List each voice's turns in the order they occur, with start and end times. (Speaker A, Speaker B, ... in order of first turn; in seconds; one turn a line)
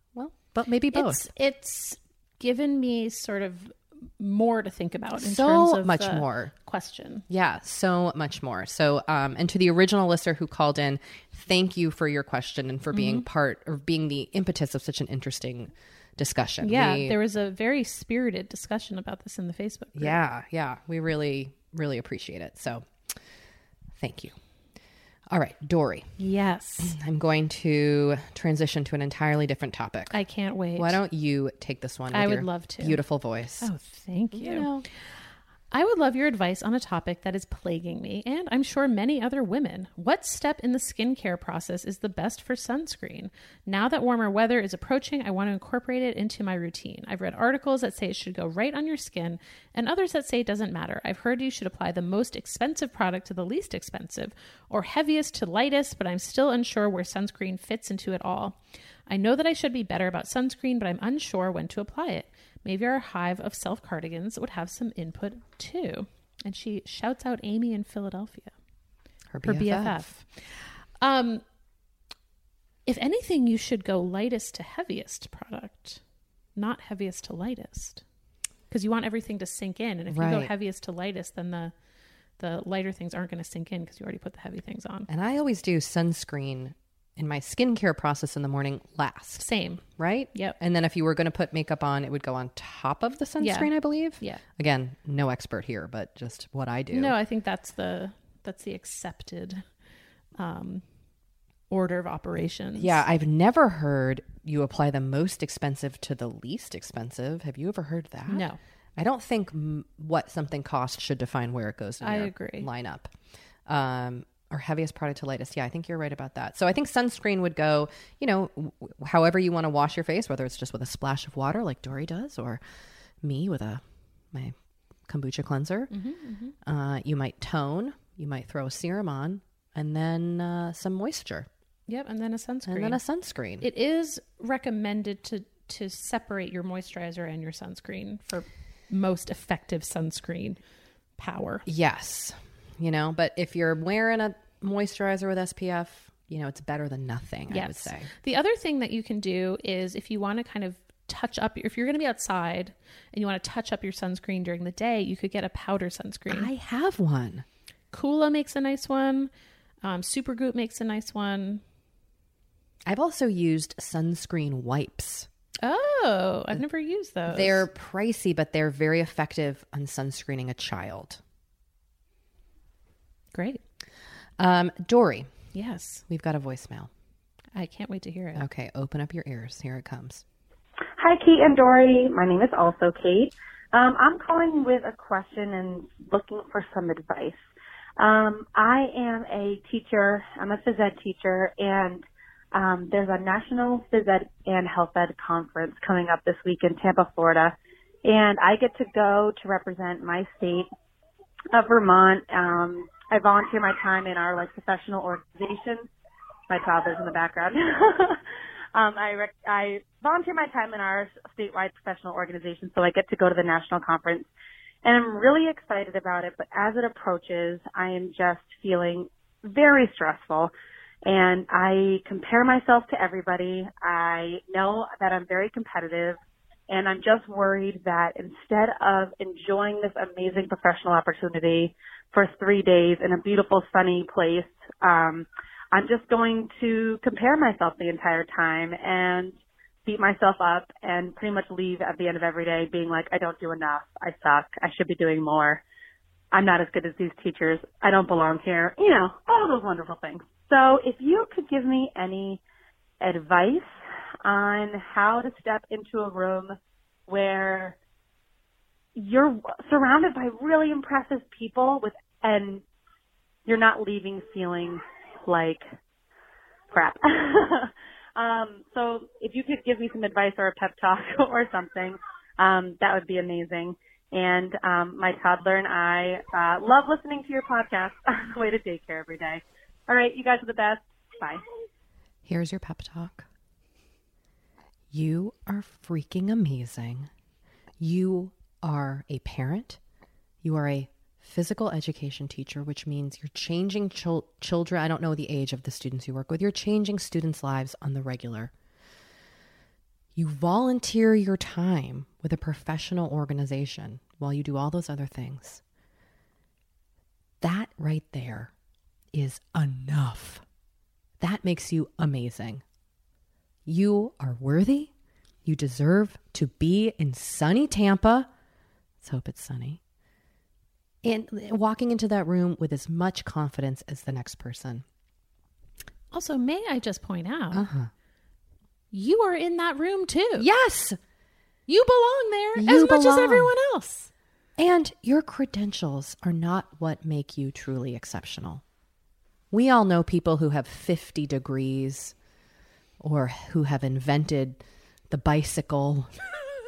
Speaker A: 0.1-1.3
Speaker B: 0.9-7.2
Speaker A: 5.2-6.5
Speaker A: 7.3-17.2
Speaker B: 12.9-13.3
Speaker B: 16.6-20.2
Speaker A: 20.0-22.9
Speaker A: 24.0-24.4
Speaker A: 25.3-26.1
Speaker B: 26.2-26.9
Speaker A: 26.8-30.2
Speaker B: 30.1-31.0
Speaker A: 30.8-33.7
Speaker B: 32.1-33.0
Speaker B: 33.6-68.5
Speaker A: 34.3-34.9
Speaker A: 69.3-70.1
Speaker B: 69.5-71.4
Speaker B: 72.9-76.0
Speaker B: 76.5-78.0
Speaker B: 78.7-81.7
Speaker A: 80.1-80.5
Speaker B: 82.4-85.1
Speaker A: 85.1-89.5
Speaker B: 89.4-90.6
Speaker A: 90.0-97.1
Speaker B: 93.4-94.4
Speaker B: 96.9-99.7
Speaker B: 100.3-100.8
Speaker B: 101.7-103.0
Speaker A: 102.8-113.1
Speaker B: 108.3-108.6
Speaker B: 112.0-112.7
Speaker A: 113.7-122.6
Speaker A: 123.2-124.6
Speaker A: 125.1-125.9
Speaker B: 125.9-126.5
Speaker A: 126.7-131.5
Speaker B: 131.9-133.0
Speaker A: 132.7-133.7
Speaker B: 133.6-140.6
Speaker B: 141.2-141.7
Speaker A: 141.7-148.1
Speaker B: 147.5-156.5
Speaker A: 156.3-157.5
Speaker B: 157.9-159.3
Speaker B: 159.8-161.6
Speaker A: 162.9-165.3
Speaker B: 165.6-167.7
Speaker A: 167.3-171.2
Speaker B: 173.3-173.6
Speaker A: 174.4-175.3
Speaker B: 175.5-176.0
Speaker A: 176.1-176.9
Speaker B: 177.6-178.5
Speaker A: 178.3-180.2
Speaker C: 181.0-187.4
Speaker C: 188.0-200.7
Speaker C: 201.5-205.9
Speaker C: 206.5-208.2
Speaker C: 208.7-214.3
Speaker C: 214.8-220.5
Speaker C: 221.1-245.6
Speaker C: 246.3-252.4
Speaker C: 253.0-253.7
Speaker C: 254.2-256.6
Speaker C: 257.1-257.8
Speaker C: 259.0-262.6
Speaker C: 263.5-265.6
Speaker C: 266.7-281.4
Speaker A: 282.3-283.3
Speaker A: 284.9-287.1
Speaker A: 287.8-289.8
Speaker A: 290.4-298.5
Speaker A: 300.2-305.6
Speaker A: 307.4-308.5
Speaker A: 309.1-310.4
Speaker A: 311.2-312.6
Speaker A: 313.7-314.9
Speaker A: 315.4-318.3
Speaker A: 319.0-319.8
Speaker A: 321.0-324.9
Speaker B: 326.1-327.6
Speaker A: 327.5-327.9
Speaker B: 328.9-330.5
Speaker A: 330.4-331.0
Speaker B: 331.7-334.1
Speaker A: 332.6-333.5
Speaker A: 334.6-338.6
Speaker A: 339.5-342.1
Speaker A: 343.0-346.1